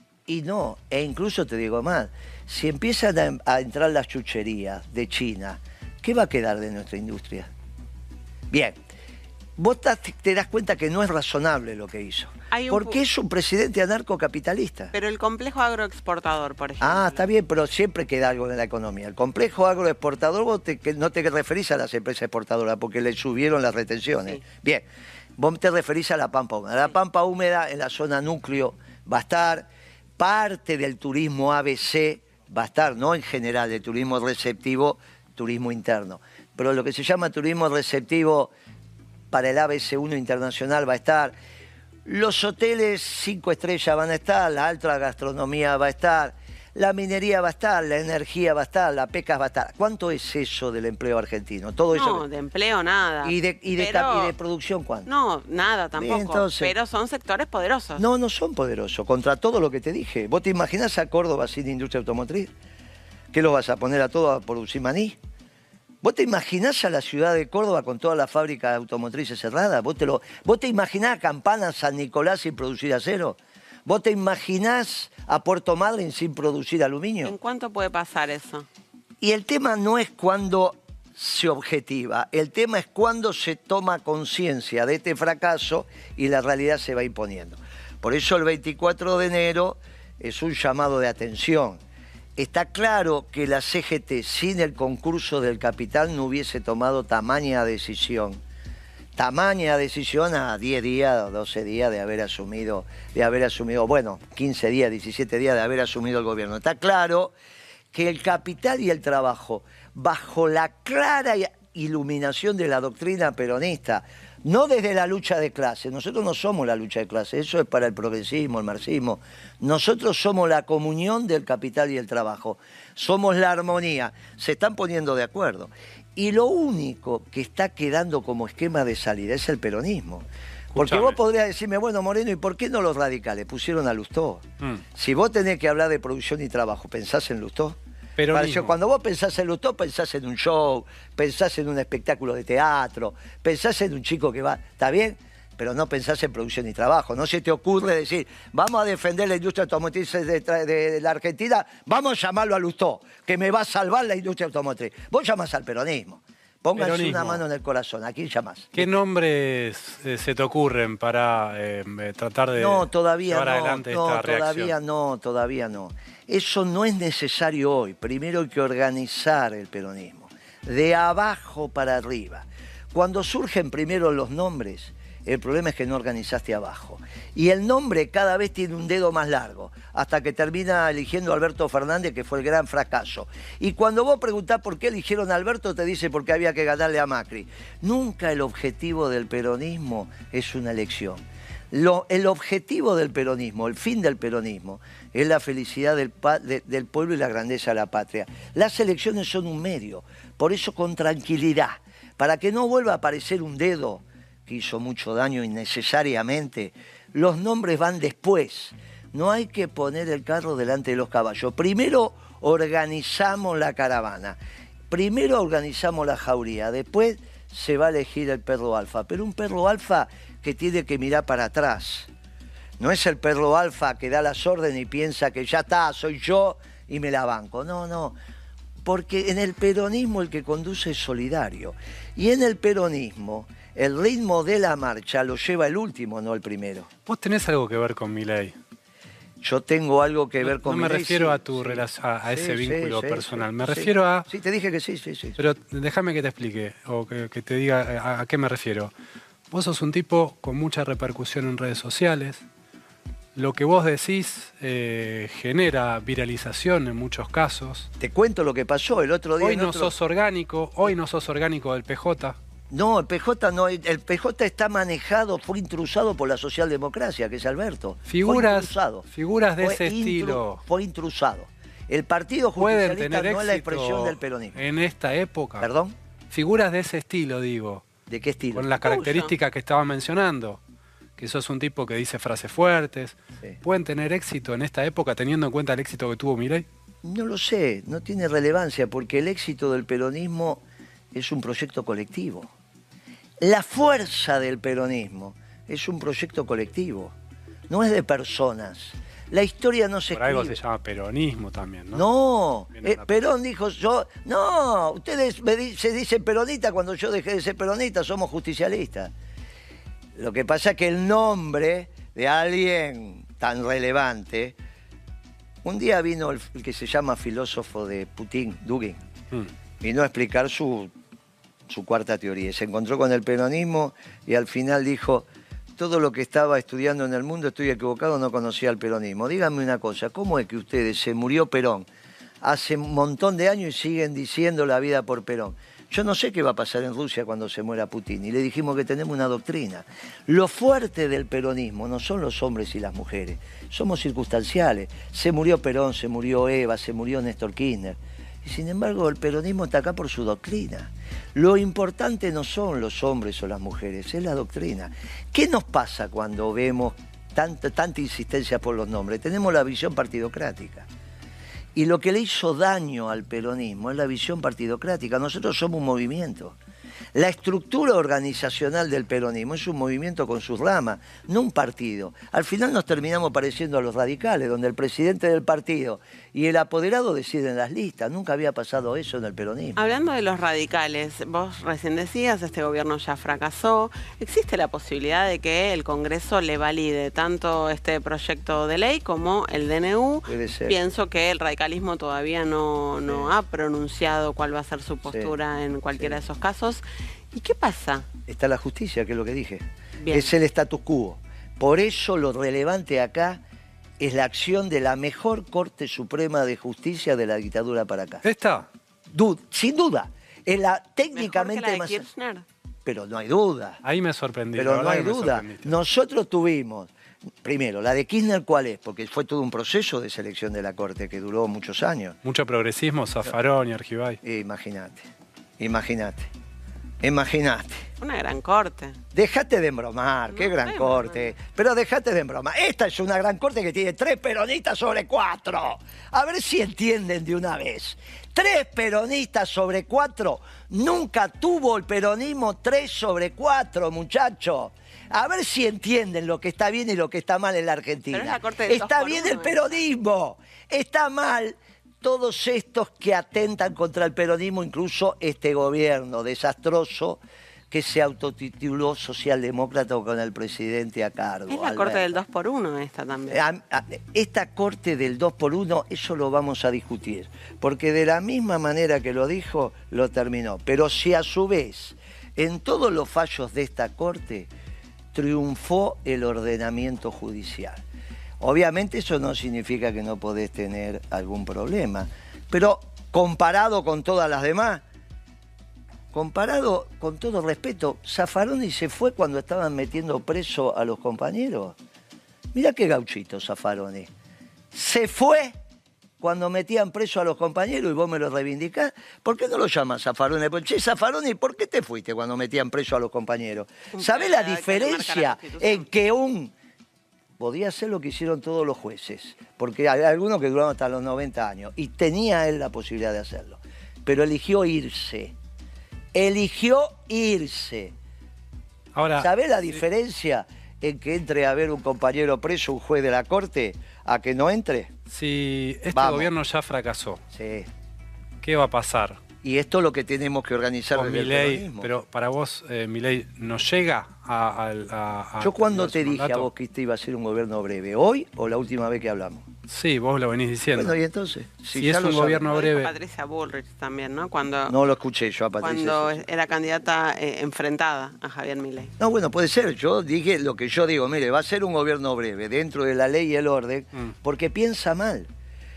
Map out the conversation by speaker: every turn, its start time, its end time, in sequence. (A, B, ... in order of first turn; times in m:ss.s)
0:00.3-0:07.5 A
0:08.5-0:08.8 A
0:09.6-0:14.9 A
0:12.5-0:13.0 B
0:14.9-0:17.2 B
0:16.8-0:24.8 A
0:25.4-0:29.7 A
0:30.2-0:38.5 A
0:39.3-0:41.3 A
0:42.0-0:52.2 A
0:51.9-0:54.3 B
0:53.2-0:55.1 A
0:55.1-0:58.0 B
0:56.0-0:56.7 A
0:58.0-1:02.5 A
1:03.3-1:05.2 A
1:06.0-1:17.4 A
1:17.2-1:18.7 B
1:19.2-1:31.8 A
1:32.4-1:38.4 A
1:39.2-1:47.4 A
1:47.9-2:17.8 A
2:10.7-2:11.2 C
2:18.2-2:18.7 C
2:18.3-2:38.9 A
2:36.8-2:37.4 C
2:38.8-2:44.7 C
2:42.6-3:34.4 A
3:34.9-3:42.1 A
3:42.8-3:48.2 A
3:48.8-3:56.9 A
3:57.1-3:58.6 C
3:59.4-4:05.4 A
4:00.4-4:04.3 C
4:05.4-4:08.9 C
4:09.5-4:12.4 C
4:13.4-4:17.9 C
4:18.0-4:19.9 A
4:19.4-4:22.4 C
4:22.7-4:29.1 A
4:28.1-4:30.6 C
4:29.6-4:34.6 A
4:32.6-4:35.7 C
4:35.6-4:35.9 A
4:36.3-4:37.9 C
4:38.1-4:38.7 A
4:38.6-4:40.6 C
4:38.8-4:39.3 B
4:41.2-4:46.7 C
4:47.0-4:52.5 A
4:53.4-4:57.1 A
4:57.7-5:00.6 A
5:00.1-5:02.0 C
5:01.9-5:09.1 A
5:02.8-5:03.0 C
5:10.2-5:14.6 A
5:15.6-5:19.0 A
5:19.8-5:20.9 A
5:21.7-5:31.9 A
5:32.4-6:00.9 A
6:01.8-6:06.6 A
6:07.1-6:19.8 A
6:19.8-6:38.1 B
6:30.3-6:30.8 A
6:38.3-6:43.4 A
6:40.0-6:40.3 B
6:44.0-6:48.2 A
6:48.2-6:48.7 C
6:49.1-6:52.1 A
6:51.1-6:52.4 B
6:52.8-6:53.8 A
6:53.8-6:55.8 C
6:54.5-6:56.9 A
6:57.4-7:02.2 A
7:02.2-7:04.2 C
7:04.2-7:05.0 A
7:05.6-7:06.3 A
7:07.0-7:07.9 A
7:08.0-7:09.0 B
7:09.1-7:42.2 A
7:10.3-7:11.3 B
7:28.1-7:29.8 B
7:41.5-7:43.4 B
7:43.3-7:54.5 A
7:55.1-7:57.8 A
7:58.4-8:04.8 A
8:06.1-8:11.8 A
8:12.5-8:14.1 A
8:14.7-8:15.6 A
8:16.2-8:26.5 A
8:23.9-8:25.9 B
8:27.4-8:35.3 A
8:36.1-8:37.9 A
8:39.0-8:39.3 C
8:39.2-8:44.9 A
8:45.1-8:47.2 C
8:45.9-8:46.3 A
8:47.3-8:47.7 A
8:48.4-8:49.2 C
8:49.4-8:51.9 A
8:51.0-8:56.5 C
8:55.4-8:59.5 A
8:59.7-9:01.0 C
9:00.8-9:02.5 A
9:01.7-9:02.9 C
9:02.5-9:04.8 B
9:04.7-9:06.3 A
9:05.6-9:08.9 B
9:09.0-9:15.3 A